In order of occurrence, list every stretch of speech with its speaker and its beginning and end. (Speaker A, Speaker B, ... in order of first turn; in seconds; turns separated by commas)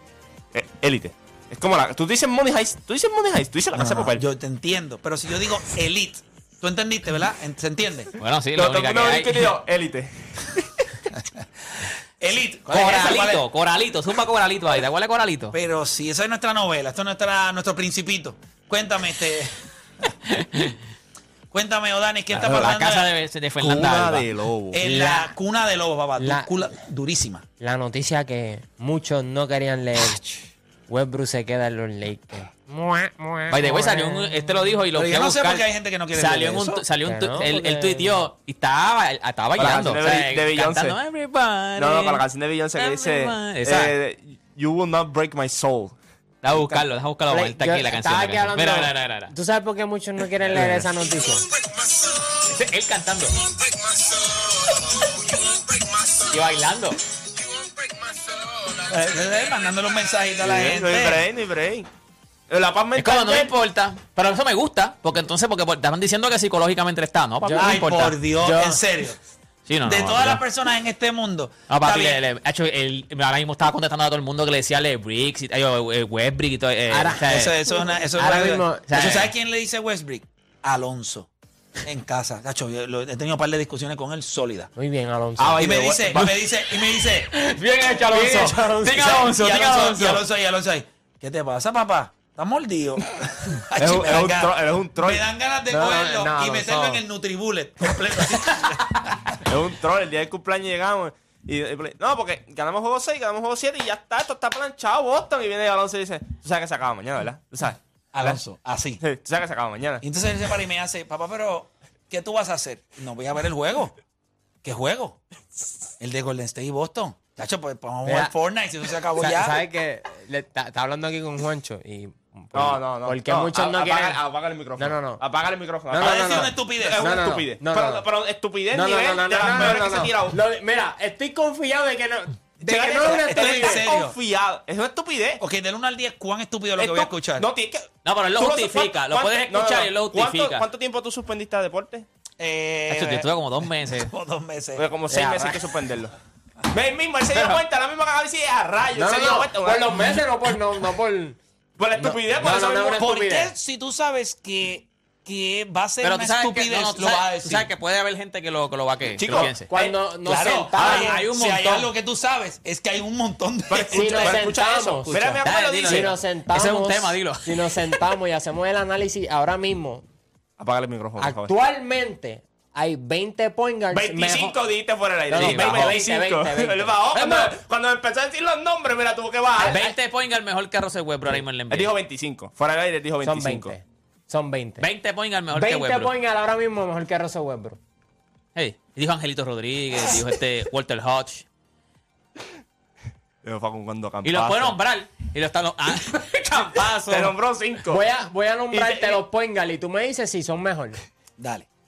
Speaker A: 0.5-4.2, Speaker B: 3.7-8.1, Speaker C: 8.2-9.5, Speaker A: 8.6-10.8, Speaker B: 12.2-13.4, Speaker C: 12.7-15.5, Speaker B: 15.5-19.5, Speaker C: 20.3-20.8, Speaker B: 21.5-23.1, Speaker C: 22.3-24.3, Speaker A: 23.6-24.8, Speaker B: 24.7-27.4, Speaker D: 24.9-25.2, Speaker D: 26.2-26.6, Speaker D: 27.6-34.4, Speaker C: 33.5-43.9, Speaker B: 34.9-36.8, Speaker D: 37.0-38.2, Speaker A: 39.6-41.0, Speaker A: 41.8-46.0, Speaker C: 46.4-49.3, Speaker D: 46.5-51.5, Speaker C: 50.5-50.8, Speaker C: 52.4-53.4, Speaker C: 56.1-57.0, Speaker B: 58.9-61.2, Speaker A: 60.4-61.9, Speaker A: 62.5-63.5, Speaker C: 62.9-68.2, Speaker D: 67.4-68.8, Speaker B: 67.5-69.2, Speaker C: 69.7-70.4, Speaker B: 69.8-72.2, Speaker C: 71.7-77.6, Speaker D: 76.9-78.8, Speaker B: 77.2-81.3, Speaker C: 78.8-79.3, Speaker B: 81.8-84.7, Speaker D: 84.8-85.6, Speaker A: 85.4-86.4, Speaker B: 85.6-87.3, Speaker C: 87.2-90.2, Speaker D: 88.0-89.2, Speaker B: 88.1-99.4, Speaker A: 93.8-95.2, Speaker D: 95.7-97.0, Speaker A: 99.5-108.4, Speaker B: 108.1-109.0, Speaker A: 109.0-110.0, Speaker B: 110.0-113.9, Speaker B: 114.6-115.2, Speaker B: 116.0-119.6, Speaker D: 118.0-118.3, Speaker D: 119.2-124.2, Speaker A: 122.5-130.4, Speaker D: 124.8-125.2, Speaker D: 125.9-128.0, Speaker B: 126.0-127.0, Speaker D: 128.7-133.9, Speaker B: 132.6-134.2, Speaker A: 132.6-135.4, Speaker B: 135.4-137.5, Speaker A: 136.8-142.1, Speaker C: 138.0-140.7, Speaker B: 142.4-143.3, Speaker C: 142.9-144.1, Speaker B: 143.9-144.9, Speaker A: 144.8-146.1, Speaker D: 145.1-145.5, Speaker A: 146.7-150.0, Speaker C: 147.3-147.6, Speaker D: 148.9-151.4, Speaker A: 151.8-153.0, Speaker D: 151.9-153.5, Speaker B: 152.8-157.7, Speaker C: 156.0-159.7, Speaker A: 159.2-160.0, Speaker D: 159.7-161.2, Speaker B: 160.2-164.3, Speaker C: 160.7-161.9, Speaker A: 163.7-166.1, Speaker D: 163.9-170.0, Speaker C: 165.4-168.0, Speaker A: 170.6-171.5, Speaker D: 171.2-174.6, Speaker A: 173.9-179.8, Speaker D: 175.3-177.6, Speaker C: 175.3-176.0, Speaker D: 179.6-179.9, Speaker C: 179.6-181.9, Speaker A: 181.3-183.8, Speaker D: 183.2-184.9, Speaker C: 184.8-186.1, Speaker D: 185.5-187.8, Speaker C: 188.5-191.4, Speaker A: 193.4-194.8, Speaker C: 194.2-197.3, Speaker A: 197.1-198.0, Speaker D: 197.9-201.0, Speaker A: 198.7-199.2, Speaker B: 201.4-201.7